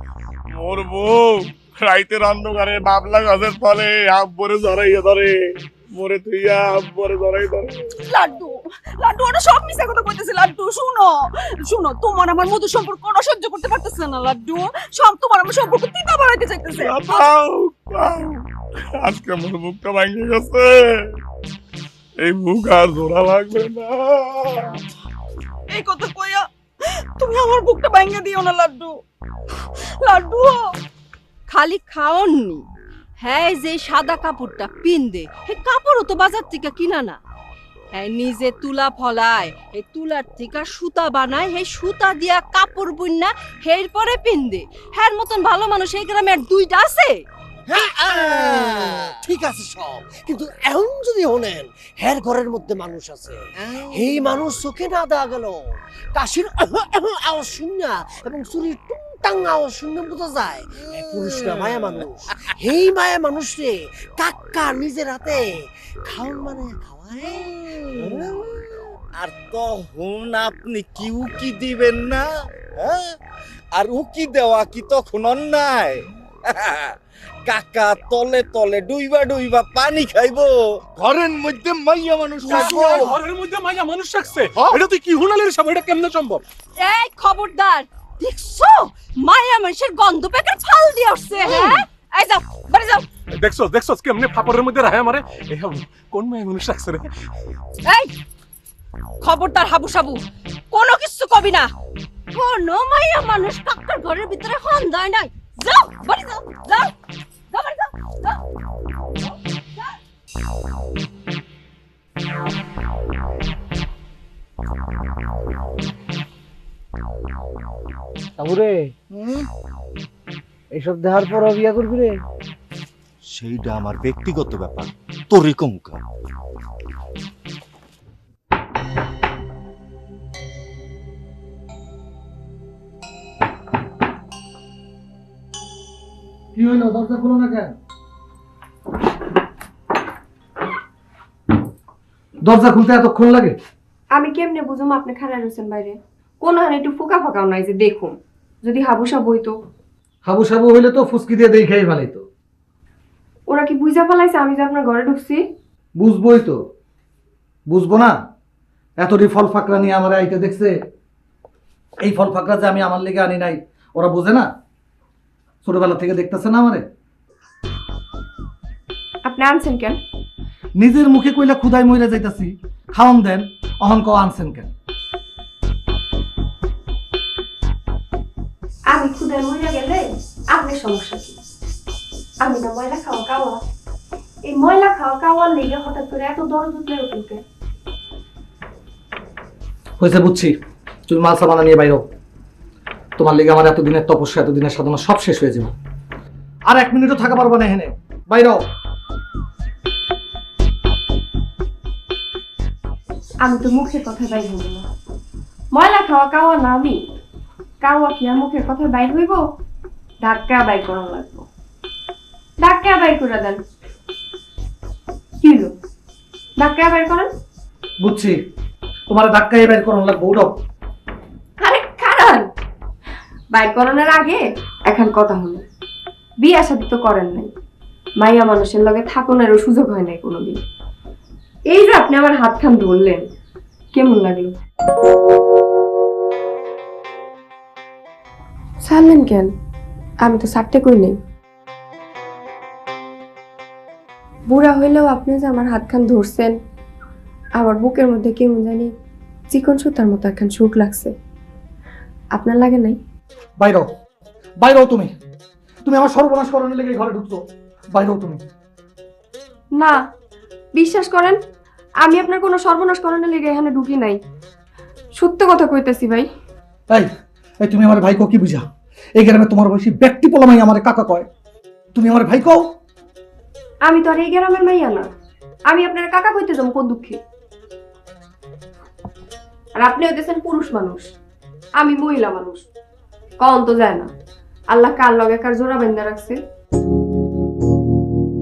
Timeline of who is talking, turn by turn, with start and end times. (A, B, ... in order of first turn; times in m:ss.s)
0:00.6-0:05.3 A
0:05.9-0:07.7 A
0:08.1-0:17.3 B
0:16.8-0:18.4 A
0:19.0-0:21.1 A
0:22.2-0:24.7 A
0:25.7-0:26.5 B
0:27.2-0:29.0 B
0:30.0-0:30.6 B
0:31.5-0:32.6 C
0:33.2-0:37.2 C
0:37.9-0:47.2 C
0:47.7-0:49.1 D
0:48.0-1:05.4 E
0:53.6-0:54.3 D
1:01.0-1:02.0 D
1:06.0-1:08.3 E
1:07.6-1:08.3 D
1:09.2-1:12.2 D
1:13.7-1:16.9 D
1:17.4-1:23.2 D
1:22.5-1:26.4 F
1:26.8-1:33.0 C
1:33.3-1:37.1 F
1:37.8-1:38.1 C
1:39.2-1:40.2 C
1:40.7-1:41.7 C
1:42.3-1:46.9 C
1:47.5-1:48.4 C
1:58.4-1:58.8 E
1:59.1-1:59.5 D
2:00.8-2:02.1 E
2:03.3-2:06.0 D
2:16.5-2:17.7 G
2:22.4-2:23.6 G
2:24.1-2:29.5 H
2:30.2-2:32.2 G
2:33.5-2:35.4 H
2:36.0-2:36.6 G
2:37.7-2:38.2 G
2:39.0-2:40.8 G
2:42.0-2:44.5 G
2:45.6-2:46.8 G
2:49.3-2:50.0 H
2:50.8-2:54.7 G
2:58.9-3:01.4 H
3:02.4-3:03.6 H
3:04.4-3:07.4 H
3:10.0-3:10.5 G
3:11.1-3:12.0 G
3:13.2-3:15.7 G
3:16.7-3:18.6 G
3:23.4-3:24.8 H
3:25.7-3:27.0 H
3:27.8-3:29.4 H
3:30.2-3:31.5 H
3:32.6-3:33.6 H
3:35.4-3:35.7 H
3:36.6-3:37.3 H
3:38.0-3:38.4 G
3:39.1-3:40.5 G
3:41.6-3:42.4 H
3:43.5-3:45.6 H
3:46.4-3:47.5 H
3:48.2-3:50.6 H
3:51.7-3:53.2 H
3:53.9-3:54.5 H
3:58.8-3:59.5 H
4:00.2-4:01.2 H
4:04.5-4:06.5 H
4:07.6-4:08.9 H
4:09.5-4:11.1 H
4:12.3-4:13.0 H
4:13.6-4:13.9 G
4:14.6-4:15.1 G
4:15.8-4:18.4 G
4:20.7-4:21.4 H
4:22.0-4:24.2 H
4:25.1-4:26.3 H
4:27.6-4:28.6 G
4:29.2-4:31.3 G
4:31.9-4:32.7 G
4:33.8-4:35.1 H
4:35.7-4:37.2 H
4:39.8-4:41.1 H
4:41.8-4:42.7 H
4:43.4-4:44.1 H
4:44.7-4:46.4 H